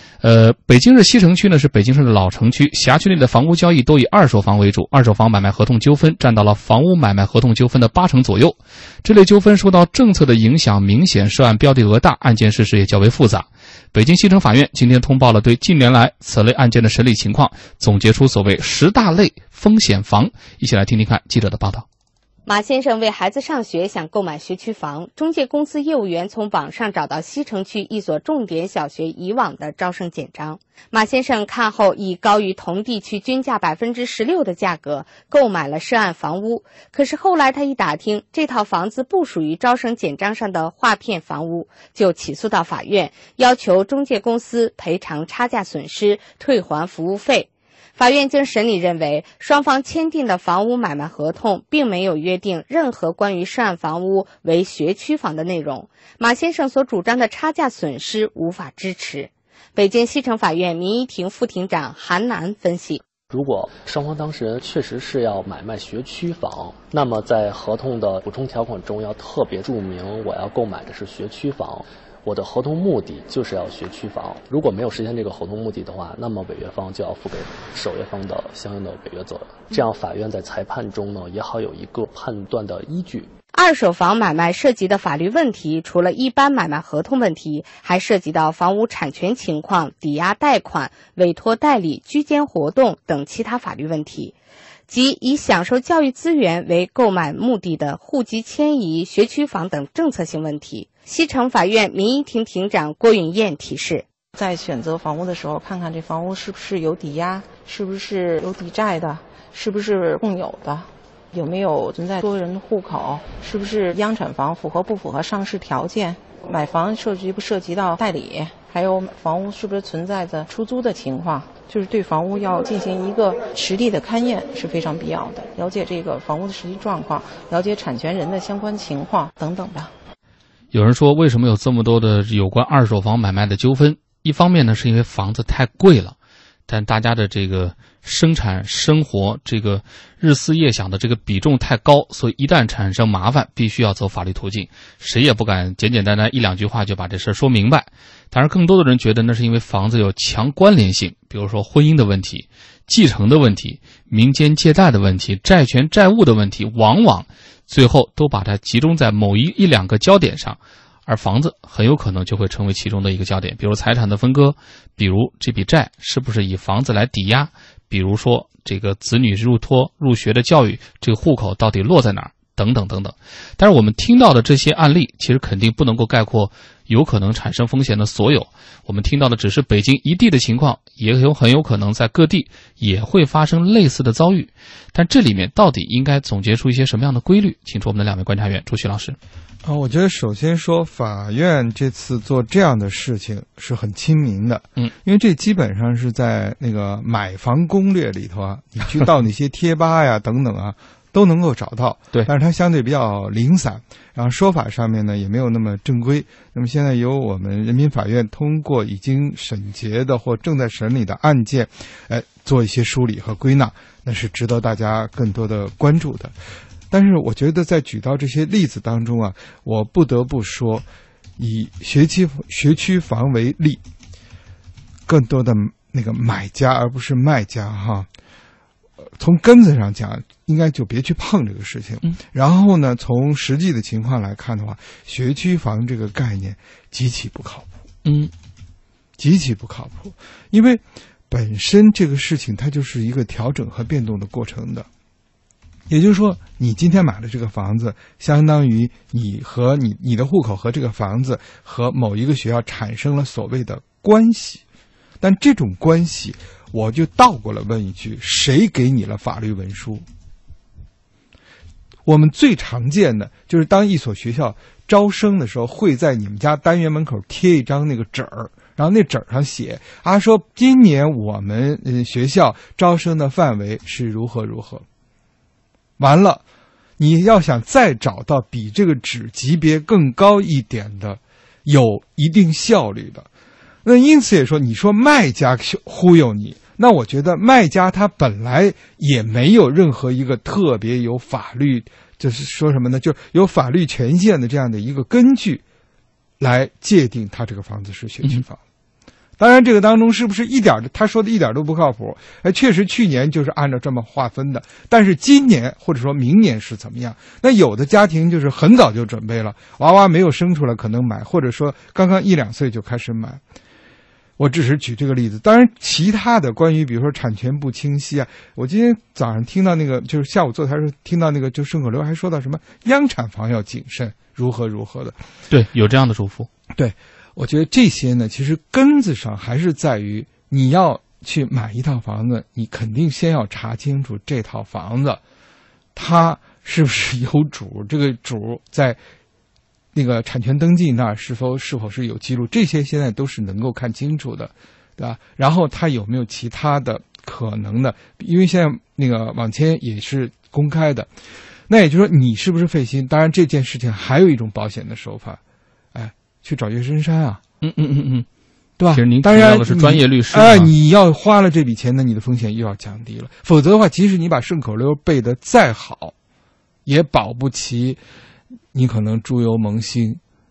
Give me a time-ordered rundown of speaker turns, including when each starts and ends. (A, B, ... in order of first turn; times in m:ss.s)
0:00.2-0:21.8 A
0:22.5-1:03.0 B
1:03.3-1:23.3 C
1:23.5-1:34.3 B
1:34.9-1:44.0 B
1:44.4-2:09.9 D
2:10.7-2:16.2 A
2:16.7-3:09.2 A
3:09.6-3:36.3 E
3:36.9-3:40.8 E
3:41.4-3:43.8 E
3:45.1-3:48.1 E
3:49.2-3:57.7 E
3:58.0-3:58.3 A
3:59.2-4:04.9 E
4:05.9-4:14.6 E
4:15.2-4:20.0 E
4:22.1-4:34.8 E
4:36.0-4:36.4 E
4:37.0-4:43.3 E
4:43.8-4:55.6 E
4:56.4-4:58.6 E
4:59.4-5:13.4 E
5:14.4-5:25.2 E
5:25.5-5:26.5 A
5:26.8-5:35.2 E
5:36.0-5:39.0 E
5:40.0-5:51.1 E
5:51.7-5:55.4 E
5:55.9-5:57.4 E
5:57.6-5:58.3 A
5:58.8-6:06.1 E
5:58.9-6:00.7 A
6:06.9-6:08.0 E
6:08.7-6:10.2 E